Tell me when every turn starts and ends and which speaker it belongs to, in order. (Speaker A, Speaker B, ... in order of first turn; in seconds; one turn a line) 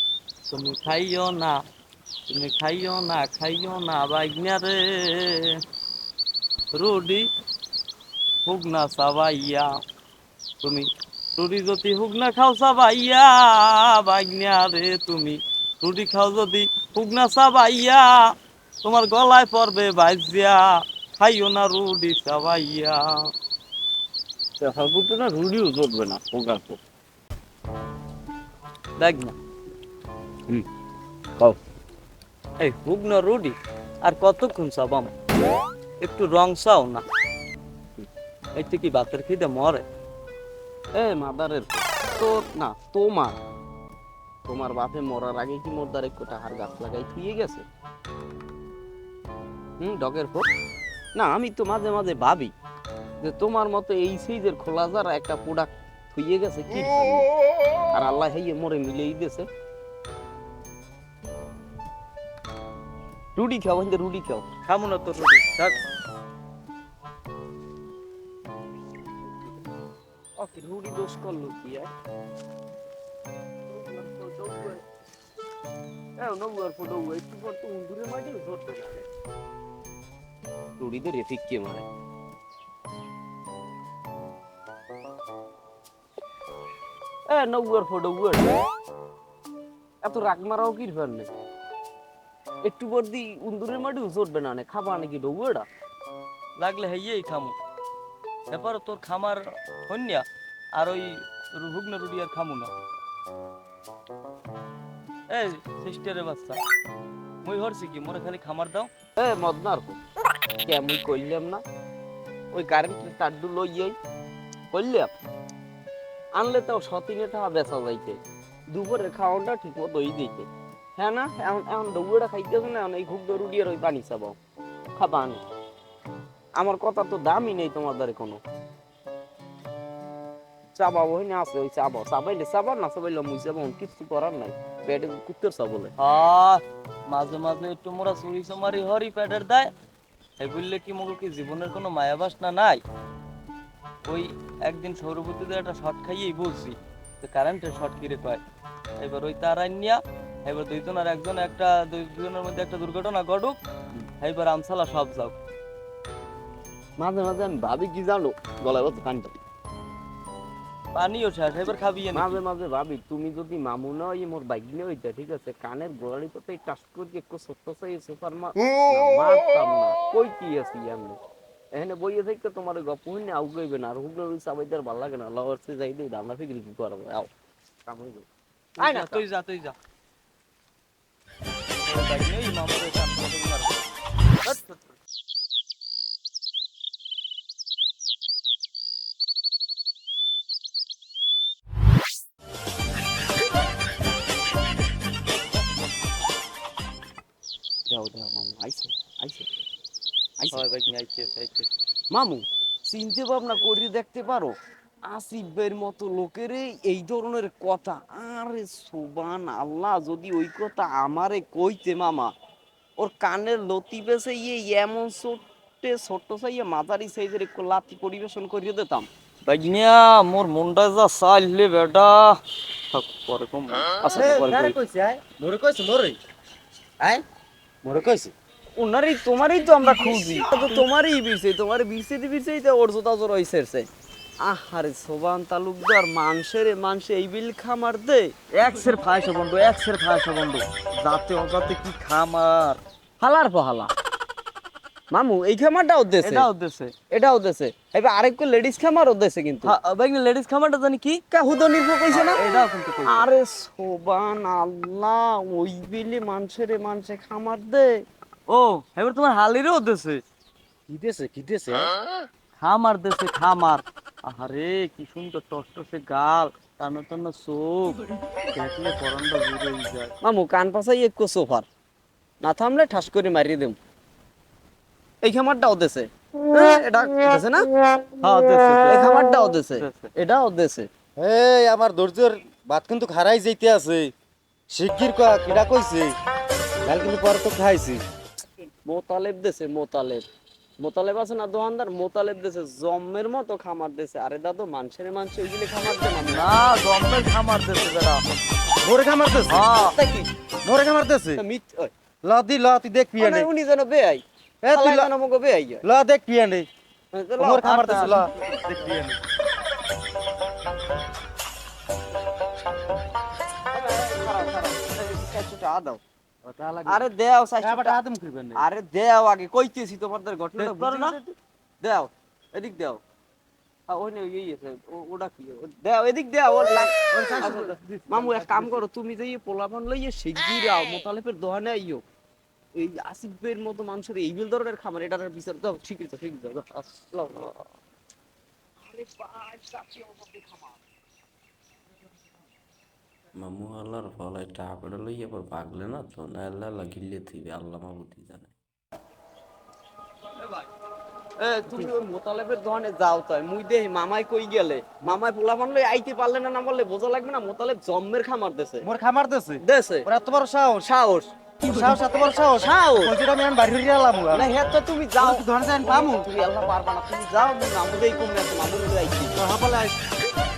Speaker A: 0.5-1.6
Speaker A: 2.3-5.6
Speaker A: 6.7-7.3
Speaker A: 8.4-9.8
Speaker A: 10.6-18.2
Speaker A: 18.8-23.3
Speaker B: 24.6-26.8
Speaker A: 29.0-29.3
Speaker A: 32.6-35.1
Speaker A: 36.0-37.0
Speaker A: 38.5-39.8
Speaker B: 40.9-43.4
Speaker B: 44.5-47.6
Speaker B: 49.8-50.5
Speaker B: 51.1-52.5
Speaker B: 53.2-57.3
Speaker B: 57.9-59.5
Speaker B: 63.4-64.5
Speaker A: 64.7-65.8
Speaker B: 70.4-71.9
Speaker B: 73.7-74.8
Speaker B: 76.2-79.0
Speaker B: 80.8-81.8
Speaker B: 87.3-88.5
Speaker B: 90.0-91.3
Speaker B: 92.6-95.7
Speaker A: 96.6-97.5
Speaker A: 98.5-100.2
Speaker A: 100.8-102.7
Speaker A: 105.3-106.6
Speaker A: 107.4-108.9
Speaker B: 109.2-110.0
Speaker B: 110.6-111.6
Speaker B: 112.5-114.0
Speaker B: 114.7-115.1
Speaker B: 116.3-118.2
Speaker B: 118.7-124.3
Speaker B: 125.0-125.4
Speaker B: 126.6-128.4
Speaker B: 130.7-135.9
Speaker A: 136.0-139.7
Speaker A: 140.4-142.8
Speaker A: 144.1-148.4
Speaker A: 149.0-153.6
Speaker A: 154.2-155.3
Speaker B: 157.0-159.3
Speaker A: 160.9-162.4
Speaker B: 162.1-171.2
Speaker B: 171.7-177.3
Speaker B: 177.8-178.3
Speaker B: 178.8-179.2
Speaker A: 178.8-179.8
Speaker A: 181.8-183.8
Speaker A: 184.4-184.9
Speaker B: 197.9-199.5
Speaker A: 200.5-201.7
Speaker B: 202.1-212.3
Speaker B: 213.0-219.1
Speaker A: 219.4-222.4
Speaker A: 222.9-224.8
Speaker C: 224.0-226.2
Speaker C: 227.8-228.3
Speaker B: 228.8-233.9
Speaker B: 234.4-238.4
Speaker A: 238.5-242.8
Speaker B: 243.2-243.9
Speaker B: 245.1-246.5
Speaker A: 246.2-246.9
Speaker B: 247.1-249.8
Speaker A: 249.6-251.2
Speaker B: 251.3-258.0
Speaker A: 252.1-253.3
Speaker A: 258.5-260.2
Speaker C: 260.9-261.9
Speaker A: 262.6-268.0
Speaker A: 268.5-270.1
Speaker B: 270.2-271.6
Speaker B: 272.4-273.8
Speaker B: 275.2-277.7
Speaker A: 278.2-280.1
Speaker B: 278.9-280.9
Speaker C: 281.2-284.1
Speaker C: 284.7-286.1
Speaker C: 286.8-288.0
Speaker B: 288.9-290.2
Speaker B: 290.8-296.5
Speaker A: 296.2-298.2
Speaker C: 298.8-299.7
Speaker A: 299.5-299.9
Speaker B: 299.7-300.3
Speaker C: 300.6-301.4
Speaker B: 301.4-301.9
Speaker C: 302.2-303.5
Speaker B: 303.2-305.8
Speaker C: 304.6-305.1
Speaker C: 305.8-306.7
Speaker B: 307.1-308.2
Speaker C: 307.4-308.3
Speaker A: 307.6-309.2
Speaker B: 313.7-316.0
Speaker C: 316.4-317.1
Speaker B: 316.9-318.0
Speaker C: 317.6-318.6
Speaker B: 318.6-321.2
Speaker C: 320.6-321.2
Speaker B: 321.8-323.0
Speaker B: 323.9-332.0
Speaker C: 326.7-328.9
Speaker B: 332.8-337.5
Speaker B: 338.8-340.8
Speaker D: 343.3-348.5
Speaker B: 351.4-358.9
Speaker C: 358.8-360.9
Speaker B: 359.6-360.1
Speaker B: 360.8-361.3
Speaker C: 361.6-364.5
Speaker B: 362.6-363.1
Speaker B: 364.3-369.3
Speaker C: 365.2-366.3
Speaker C: 369.4-370.0